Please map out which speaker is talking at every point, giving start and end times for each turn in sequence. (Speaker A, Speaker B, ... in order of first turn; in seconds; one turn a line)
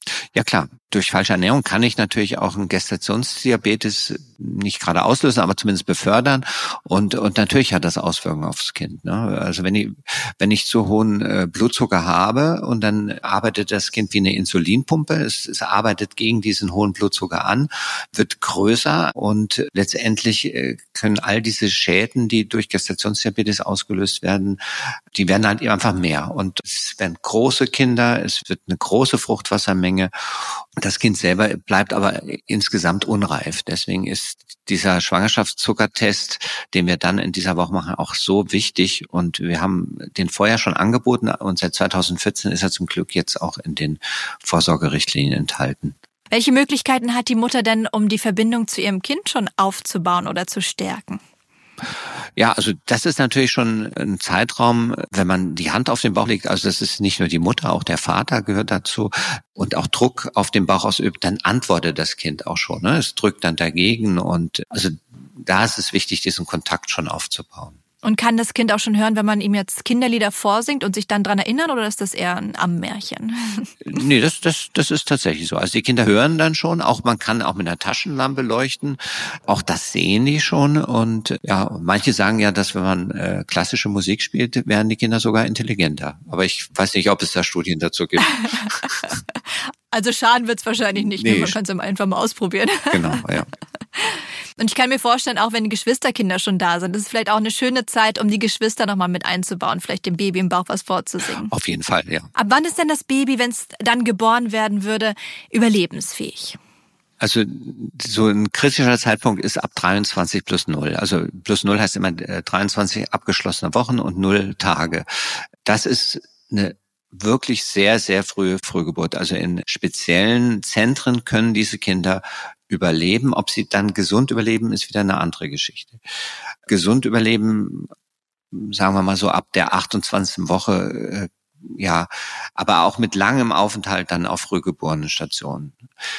Speaker A: 0.3-24.6
Speaker A: 25.1-45.9
Speaker B: 46.3-51.2
Speaker A: 52.4-67.8
Speaker B: 68.0-73.7
Speaker A: 73.8-88.9
Speaker B: 88.5-89.2
Speaker B: 89.9-93.2
Speaker A: 91.0-91.6
Speaker A: 92.9-93.5
Speaker B: 94.0-101.5
Speaker A: 101.4-102.3
Speaker B: 102.3-106.6
Speaker A: 107.2-115.0
Speaker A: 115.6-126.0
Speaker A: 126.7-127.9
Speaker A: 128.5-135.8